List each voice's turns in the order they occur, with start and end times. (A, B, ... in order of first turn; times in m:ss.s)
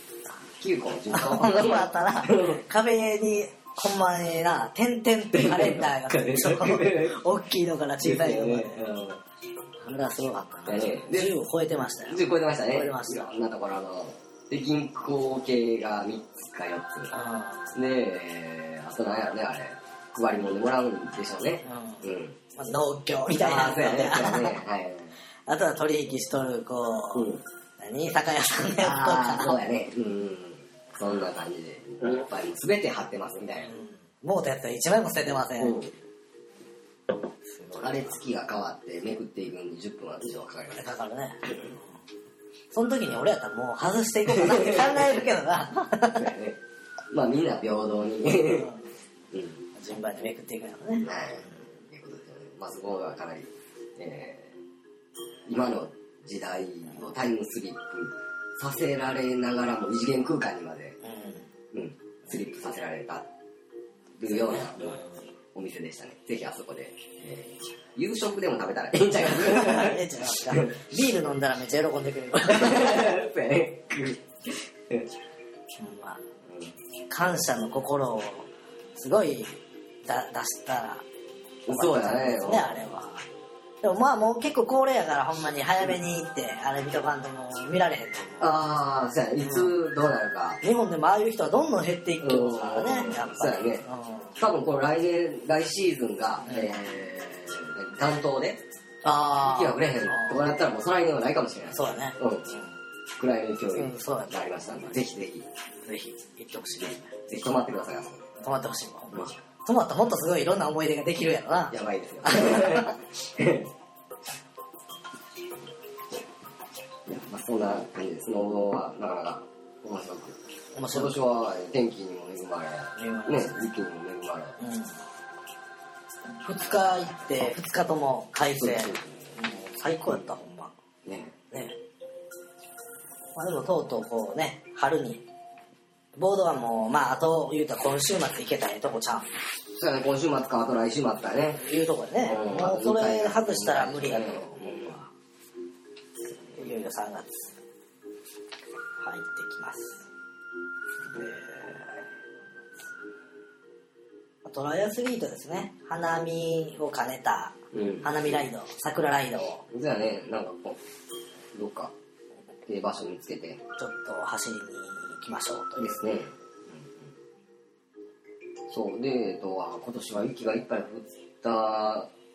0:00.6-0:02.6 A
0:01.1-0:08.9 B
0:05.3-0:07.1 A
0:08.0-0:09.2 A
0:09.8-0:13.3 B
0:10.6-0:11.3 A
0:12.1-0:17.1 A
0:17.1-0:17.7 B
0:17.7-0:22.4 A
0:21.6-0:24.6 B
0:23.3-0:25.2 A
0:25.5-0:27.3 B
0:27.1-0:27.4 A
0:27.8-0:29.6 B
0:28.8-0:33.7 A
0:33.6-0:35.8 B
0:35.6-0:35.9 A
0:37.6-0:40.8 A
0:40.7-0:41.8 B
0:41.5-0:41.7 A
0:42.7-0:46.3 B
0:44.3-0:45.0 A
0:46.1-0:46.6 A
0:47.1-0:48.7 A
0:48.4-0:48.8 B
0:49.3-0:49.6 A
0:49.7-0:51.1 B
0:51.0-0:54.6 A
0:55.5-1:01.0 A
1:01.0-1:01.5 B
1:01.7-1:03.3 A
1:04.2-1:05.0 A
1:04.3-1:05.1 B
1:05.5-1:10.8 A
1:09.2-1:13.2 B
1:12.5-1:15.1 A
1:15.8-1:16.2 B
1:16.4-1:16.7 A
1:17.1-1:21.0 B
1:21.6-1:22.8 A
1:21.7-1:23.2 B
1:23.8-1:28.5 B
1:28.4-1:30.6 A
1:29.4-1:29.7 B
1:30.6-1:34.4 B
1:32.2-1:33.8 A
1:34.4-1:38.6 A
1:36.4-1:36.8 B
1:39.0-1:40.5 B
1:39.4-1:42.5 A
1:41.7-1:42.6 B
1:43.2-1:45.5 A
1:43.7-1:44.4 B
1:45.8-1:47.1 B
1:47.2-1:48.3 A
1:48.4-1:52.9 B
1:51.7-1:53.7 A
1:57.1-2:00.4 A
2:00.7-2:01.1 B
2:00.9-2:04.6 A
2:02.9-2:03.7 B
2:04.6-2:05.0 B
2:06.4-2:10.7 B
2:08.6-2:09.3 A
2:11.0-2:11.4 A
2:11.5-2:11.8 B
2:13.3-2:15.2 B
2:16.2-2:19.3 B
2:19.8-2:21.6 A
2:21.6-2:25.1 B
2:22.2-2:25.0 A
2:26.4-2:27.6 B
2:29.0-2:30.1 B
2:31.0-2:32.0 B
2:34.4-2:39.6 B
2:37.7-2:38.4 A
2:39.7-2:40.8 A
2:41.5-2:41.9 A
2:42.7-2:43.6 A
2:43.8-2:46.1 B
2:45.8-2:46.9 A
2:48.7-2:52.1 A